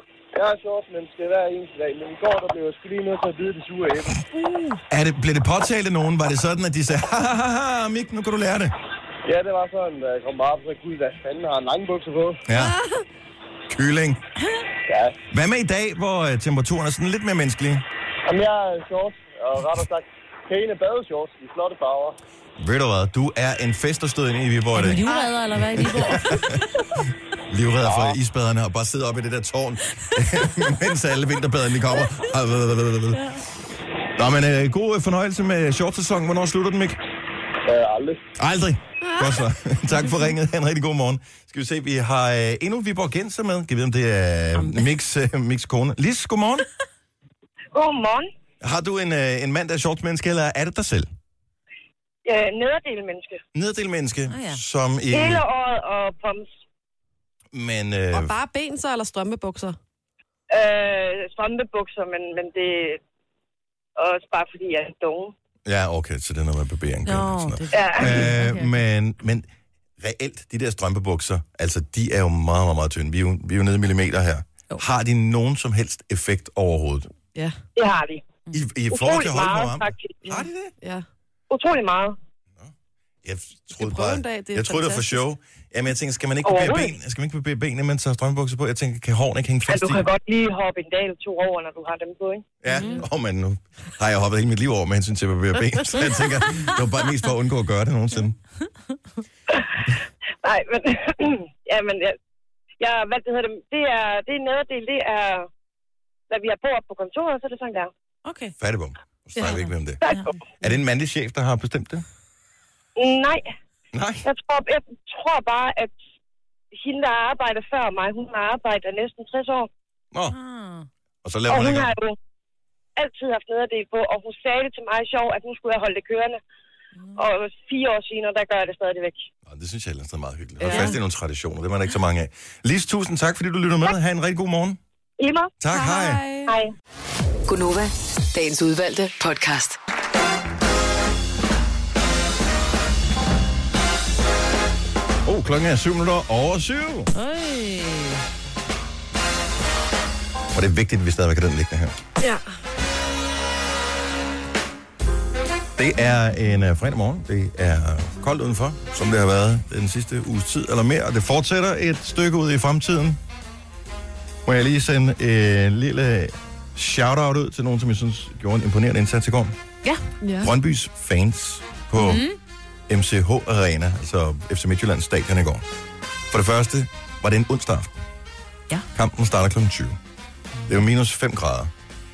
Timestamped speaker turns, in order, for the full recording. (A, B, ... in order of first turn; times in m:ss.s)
0:00.4-0:04.2 A
0:04.4-0:04.8 B
0:04.9-0:08.7 C
0:09.3-0:12.4 A
0:12.5-0:12.8 C
0:12.5-0:13.0 B
0:13.7-0:14.2 C
0:14.9-0:15.2 A
0:15.3-0:17.8 C
0:18.3-0:22.2 A
0:22.6-0:25.1 C
0:24.8-0:26.4 D
0:25.1-0:26.3 B
0:25.8-0:26.6 C
0:27.5-0:33.2 C
0:27.8-0:28.2 A
0:33.1-0:33.4 D
0:34.2-0:37.0 C
0:37.7-0:38.3 A
0:38.4-0:46.7 C
0:39.0-0:39.4 B
0:44.6-0:44.9 D
0:47.7-0:48.3 E
0:48.6-0:51.1 C
0:52.3-0:53.4 E
0:53.5-0:55.4 C
0:54.3-0:54.6 D
0:55.1-0:56.5 E
0:57.5-0:58.4 C
0:58.1-0:59.8 B
1:00.5-1:03.0 E
1:04.0-1:05.3 E
1:05.6-1:09.5 C
1:07.1-1:08.7 D
1:07.7-1:08.2 E
1:10.0-1:17.1 C
1:17.8-1:18.2 E
1:18.5-1:20.8 C
1:18.9-1:20.2 E
1:20.2-1:21.0 B
1:21.5-1:22.2 E
1:23.2-1:30.1 C
1:23.7-1:25.2 B
1:26.4-1:26.9 E
1:29.7-1:32.5 E
1:32.6-1:38.4 C
1:32.7-1:33.0 D
1:39.5-1:42.2 E
1:42.8-1:45.5 E
1:46.3-1:47.9 E
1:48.2-1:48.6 D
1:48.6-1:50.0 C
1:50.0-1:50.4 E
1:50.6-1:52.0 C
1:53.0-1:53.5 E
1:53.9-1:54.3 C
1:54.2-1:56.0 E
1:56.7-1:59.7 E
2:00.3-2:00.9 D
2:01.2-2:01.9 C
2:01.5-2:02.2 E
2:03.0-2:06.4 E
2:07.2-2:09.3 E
2:09.5-2:14.8 C
2:10.6-2:10.9 E
2:15.2-2:15.5 E
2:15.6-2:16.2 C
2:15.7-2:16.5 B
2:16.5-2:16.7 E
2:17.5-2:19.8 F
2:25.2-2:27.1 C
2:27.1-2:28.2 D
2:30.5-2:32.0 C
2:35.8-2:43.2 C
2:44.4-2:49.6 C
2:50.2-2:50.5 B
2:50.4-2:52.2 C
2:52.0-2:52.4 D
2:52.9-2:55.6 C
2:56.3-2:57.9 C
2:58.9-3:00.0 C
3:00.7-3:01.7 C